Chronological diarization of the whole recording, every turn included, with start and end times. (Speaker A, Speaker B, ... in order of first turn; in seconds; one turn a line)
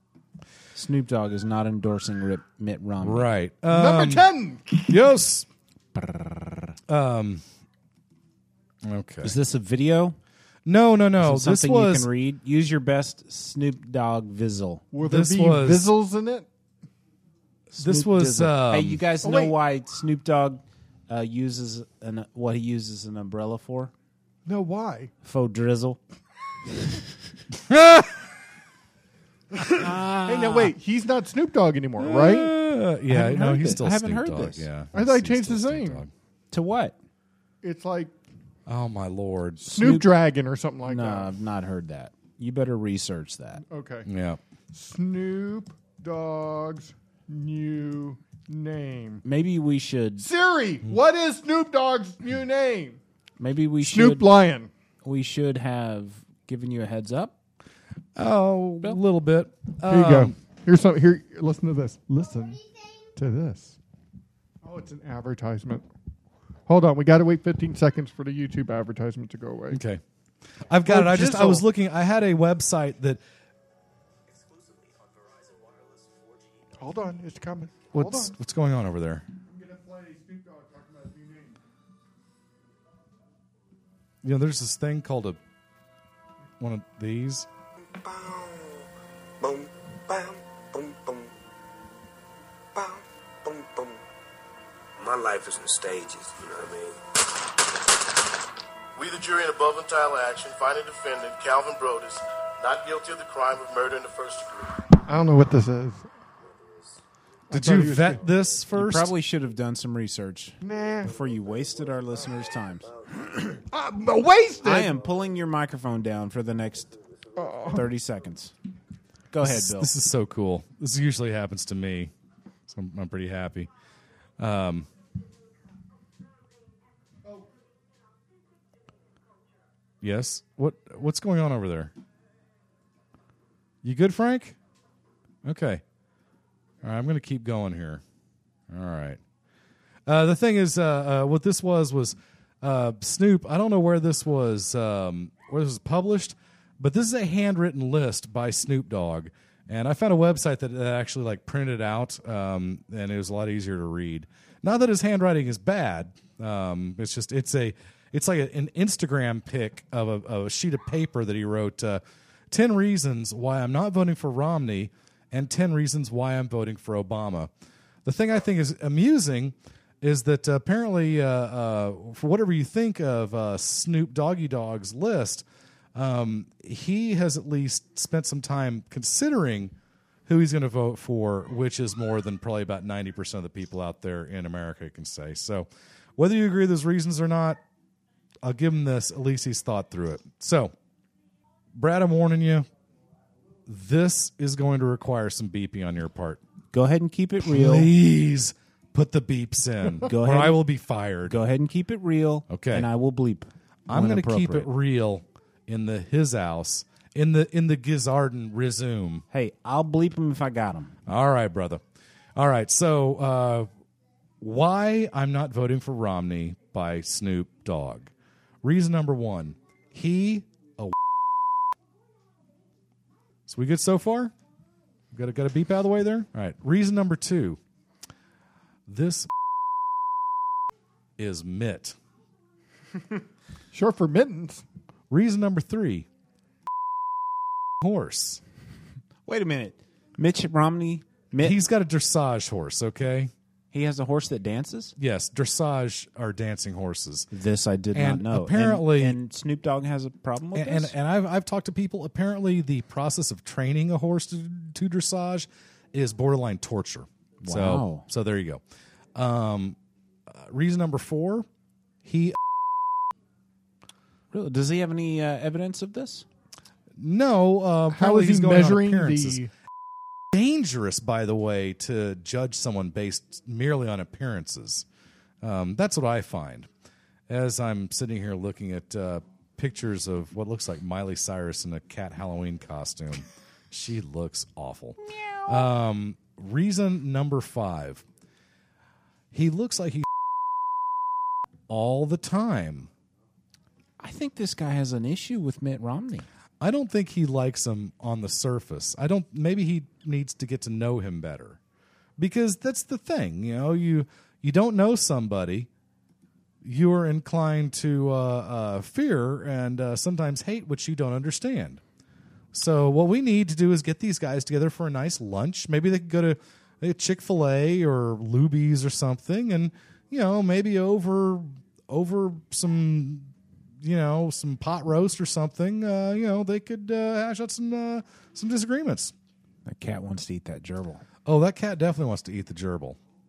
Speaker A: 0.7-3.3
Speaker B: 3.0-4.3
Speaker C: 3.7-4.9
Speaker B: 4.9-5.5
Speaker B: 6.9-7.4
Speaker B: 8.8-9.3
Speaker A: 9.2-10.2
Speaker B: 10.7-12.1
Speaker A: 11.2-14.9
Speaker C: 14.9-16.5
Speaker B: 15.0-15.9
Speaker A: 17.7-23.9
Speaker B: 17.8-19.0
Speaker C: 19.2-19.6
Speaker C: 24.4-25.1
Speaker A: 25.2-26.0
Speaker B: 27.6-28.1
Speaker A: 29.7-30.7
Speaker C: 30.2-32.5
Speaker B: 32.0-36.1
Speaker A: 33.1-34.7
Speaker C: 34.9-36.0
Speaker A: 36.5-37.0
Speaker C: 37.6-38.1
Speaker B: 38.7-40.0
Speaker A: 39.6-40.1
Speaker C: 39.7-41.3
Speaker A: 40.9-43.6
Speaker C: 43.6-44.1
Speaker B: 44.1-44.4
Speaker C: 44.7-49.2
Speaker A: 49.2-50.3
Speaker C: 50.2-53.0
Speaker A: 53.4-54.3
Speaker C: 53.8-54.7
Speaker A: 55.0-57.3
Speaker B: 58.2-60.4
Speaker C: 59.9-62.6
Speaker C: 63.2-63.8
Speaker C: 64.6-65.8
Speaker C: 66.7-69.8
Speaker B: 69.7-70.0
Speaker B: 70.7-73.2
Speaker C: 70.9-71.7
Speaker C: 76.8-78.3
Speaker B: 77.9-79.3
Speaker C: 79.5-81.6
Speaker B: 84.2-85.4
Speaker B: 86.6-87.5
Speaker D: 88.0-88.8
Speaker D: 89.4-91.3
Speaker D: 92.8-94.0
Speaker D: 95.0-97.0
Speaker E: 99.0-104.7
Speaker C: 105.1-106.0
Speaker C: 107.5-108.2
Speaker B: 107.5-109.1
Speaker A: 108.7-112.9
Speaker C: 110.6-111.1
Speaker C: 113.7-115.0
Speaker A: 114.6-117.0
Speaker C: 117.4-117.8
Speaker A: 117.7-118.5
Speaker A: 119.3-119.9
Speaker B: 119.4-122.1
Speaker B: 122.7-123.7
Speaker B: 124.4-124.9
Speaker B: 130.0-131.9
Speaker B: 133.8-134.6
Speaker B: 135.4-135.8
Speaker B: 136.8-138.0
Speaker B: 138.7-139.2
Speaker B: 140.1-167.5
Speaker B: 168.1-179.7
Speaker B: 180.3-187.6
Speaker B: 188.4-190.7
Speaker B: 191.7-192.7
Speaker B: 193.7-196.4
Speaker A: 196.7-197.9
Speaker B: 197.4-201.4
Speaker A: 200.1-200.6
Speaker A: 201.3-204.7
Speaker B: 202.5-202.9
Speaker B: 203.9-209.2
Speaker A: 209.3-210.9
Speaker B: 211.1-211.8
Speaker B: 212.4-213.7
Speaker B: 214.4-218.1
Speaker B: 218.6-220.9
Speaker B: 223.5-224.3
Speaker B: 225.1-227.6
Speaker B: 228.9-229.3
Speaker B: 231.2-232.0
Speaker C: 233.7-234.6
Speaker B: 235.1-236.1
Speaker B: 237.8-238.4
Speaker A: 239.3-241.6
Speaker B: 241.4-243.3
Speaker A: 243.7-244.9
Speaker B: 245.0-247.3
Speaker A: 247.3-250.9
Speaker B: 247.9-249.2
Speaker B: 250.6-258.6
Speaker A: 257.4-258.1
Speaker B: 259.1-259.8
Speaker B: 260.3-261.5
Speaker B: 262.0-262.4
Speaker A: 264.3-266.2
Speaker B: 267.0-269.4
Speaker C: 267.9-269.5
Speaker B: 270.3-274.9
Speaker B: 275.4-276.7
Speaker B: 277.3-288.0
Speaker B: 289.3-290.1
Speaker B: 291.7-292.9
Speaker A: 294.0-296.3
Speaker B: 296.6-301.6
Speaker B: 302.2-305.7
Speaker B: 306.6-311.8
Speaker B: 312.5-329.1
Speaker A: 329.7-331.0
Speaker B: 331.2-333.0